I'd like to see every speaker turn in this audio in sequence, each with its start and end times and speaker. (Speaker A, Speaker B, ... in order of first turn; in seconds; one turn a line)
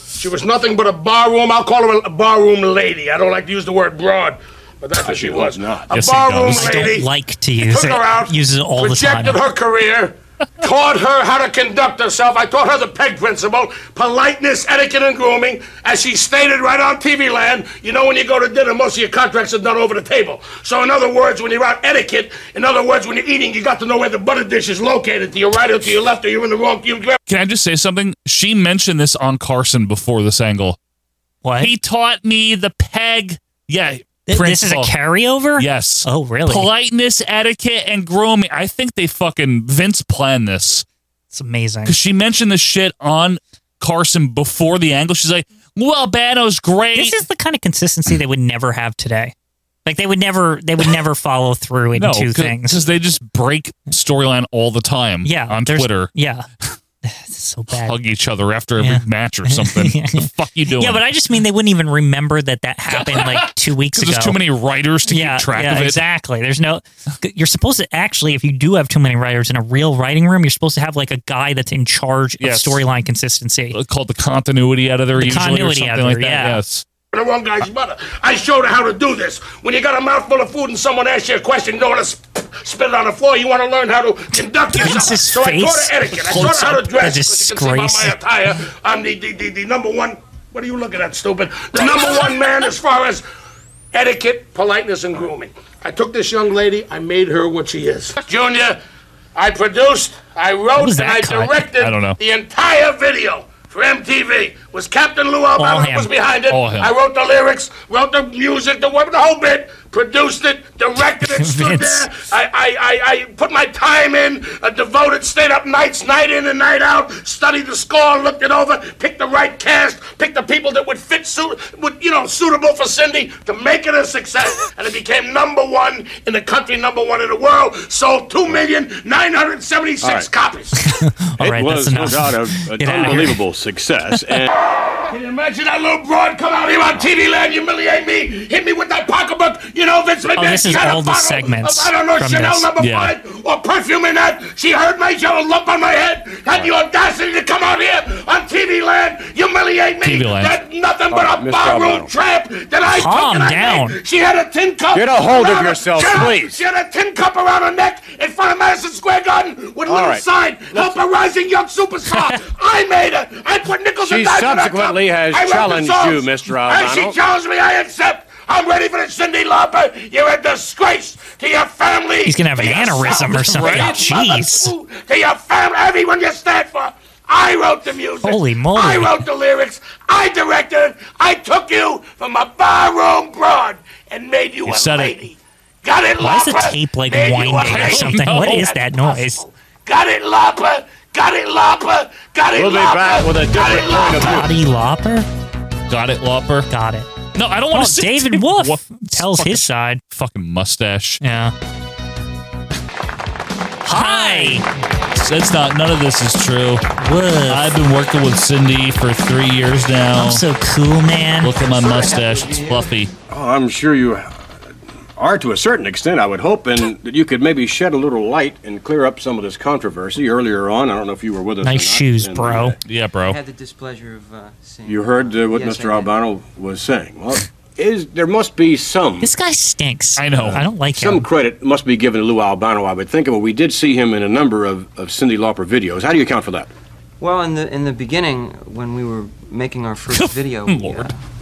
Speaker A: 0.2-27.2
Speaker B: 5.0-6.0
Speaker C: 5.9-6.9
Speaker D: 6.5-9.4
Speaker C: 27.3-30.8
Speaker D: 31.4-31.7
Speaker C: 31.6-35.0
Speaker D: 34.3-36.7
Speaker C: 35.5-40.9
Speaker D: 41.3-42.0
Speaker C: 41.9-47.2
Speaker D: 46.9-49.3
Speaker D: 49.8-52.8
Speaker C: 51.9-56.1
Speaker D: 55.2-56.5
Speaker D: 57.0-58.0
Speaker C: 57.8-61.0
Speaker D: 58.8-64.4
Speaker C: 62.9-66.0
Speaker D: 65.1-73.8
Speaker C: 72.4-72.8
Speaker C: 73.7-76.8
Speaker D: 75.1-76.6
Speaker A: 77.1-93.2
Speaker D: 84.8-88.2
Speaker A: 93.9-98.8
Speaker A: 99.3-130.8
Speaker D: 100.8-101.6
Speaker C: 101.8-102.2
Speaker D: 105.5-106.1
Speaker C: 106.5-106.9
Speaker D: 111.2-112.1
Speaker B: 130.0-130.3
Speaker D: 130.8-133.4
Speaker B: 131.4-134.5
Speaker A: 135.1-194.4
Speaker D: 140.4-142.7
Speaker C: 142.8-143.1
Speaker C: 150.0-150.5
Speaker B: 151.1-152.1
Speaker D: 152.9-154.0
Speaker B: 154.9-156.6
Speaker B: 159.9-161.0
Speaker D: 162.1-162.4
Speaker B: 164.0-167.2
Speaker D: 172.2-174.7
Speaker C: 173.4-174.0
Speaker D: 178.2-179.2
Speaker C: 184.7-185.2
Speaker D: 186.2-189.4
Speaker C: 187.7-188.8
Speaker B: 192.5-194.5
Speaker D: 194.1-195.3
Speaker C: 195.9-196.7
Speaker D: 196.7-197.1
Speaker C: 197.3-201.2
Speaker D: 197.7-200.0
Speaker D: 201.2-201.5
Speaker D: 203.8-204.7
Speaker C: 203.9-206.9
Speaker D: 207.0-207.7
Speaker C: 207.5-210.4
Speaker D: 210.2-211.6
Speaker C: 211.4-213.1
Speaker E: 211.5-212.9
Speaker B: 213.3-214.4
Speaker B: 215.2-222.8
Speaker D: 221.6-222.8
Speaker C: 222.8-223.4
Speaker E: 223.2-226.1
Speaker B: 224.8-229.3
Speaker D: 229.2-231.3
Speaker C: 230.2-230.6
Speaker B: 230.3-236.7
Speaker E: 237.2-241.2
Speaker C: 240.1-241.1